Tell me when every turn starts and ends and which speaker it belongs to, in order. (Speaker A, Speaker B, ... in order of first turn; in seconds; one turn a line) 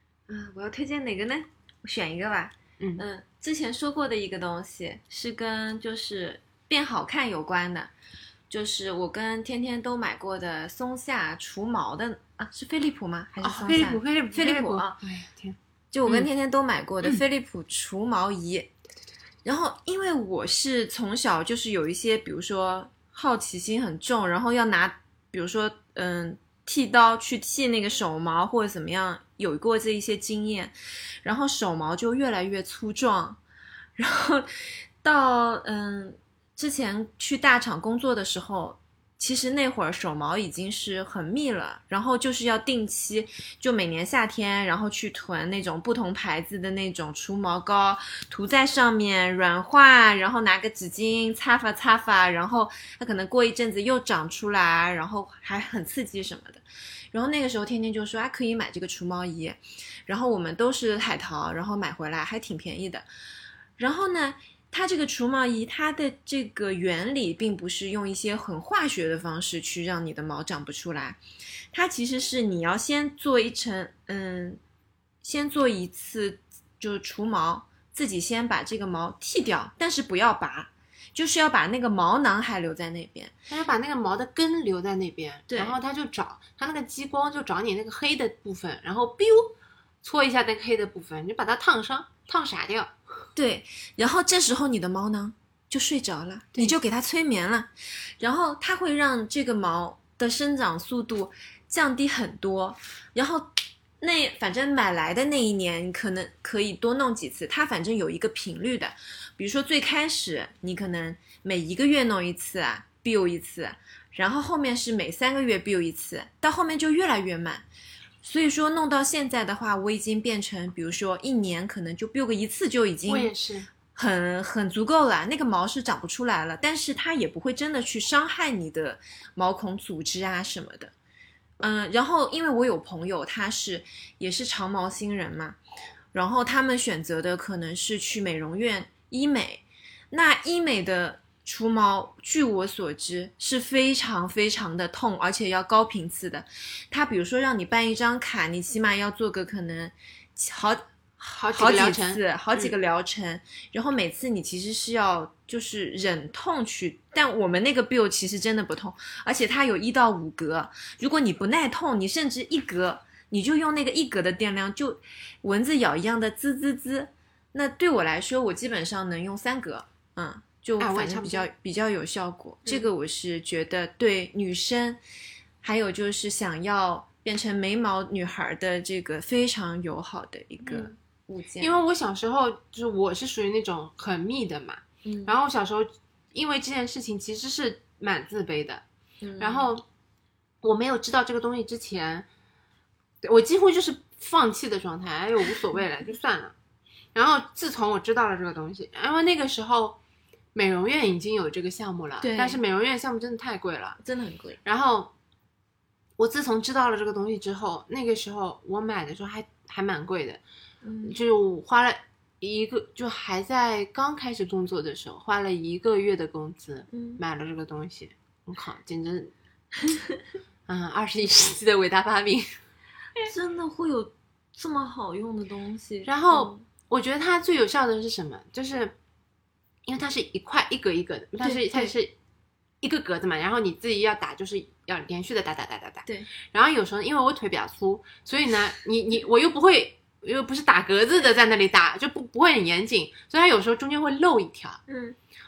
Speaker A: 0.3-7.9
Speaker B: 2.8-3.0
Speaker A: 8.5-15.0
Speaker B: 13.4-16.3
Speaker A: 15.9-18.7
Speaker A: 19.4-33.4
Speaker A: 34.0-63.0
Speaker A: 63.8-71.2
Speaker A: 71.7-74.6
Speaker A: 75.2-83.3
Speaker B: 83.5-92.9
Speaker A: 85.5-85.8
Speaker A: 93.3-117.6
Speaker A: 118.2-123.3
Speaker B: 123.0-123.7
Speaker A: 123.9-130.9
Speaker A: 131.6-135.6
Speaker A: 136.1-175.0
Speaker B: 151.3-152.7
Speaker B: 170.8-171.5
Speaker A: 175.6-181.8
Speaker B: 180.6-180.9
Speaker B: 181.6-188.8
Speaker A: 185.0-185.3
Speaker A: 189.2-189.7
Speaker B: 189.4-189.8
Speaker B: 190.6-192.2
Speaker B: 193.2-196.5
Speaker B: 197.1-200.0
Speaker B: 200.5-204.0
Speaker A: 202.2-202.6
Speaker A: 204.0-204.6
Speaker B: 204.6-205.1
Speaker B: 206.2-210.4
Speaker A: 210.8-211.2
Speaker B: 211.0-219.3
Speaker A: 216.9-217.2
Speaker B: 220.7-222.6
Speaker A: 223.2-226.6
Speaker B: 226.0-228.9
Speaker B: 229.8-232.1
Speaker A: 231.4-231.9
Speaker B: 232.8-244.8
Speaker A: 244.9-245.2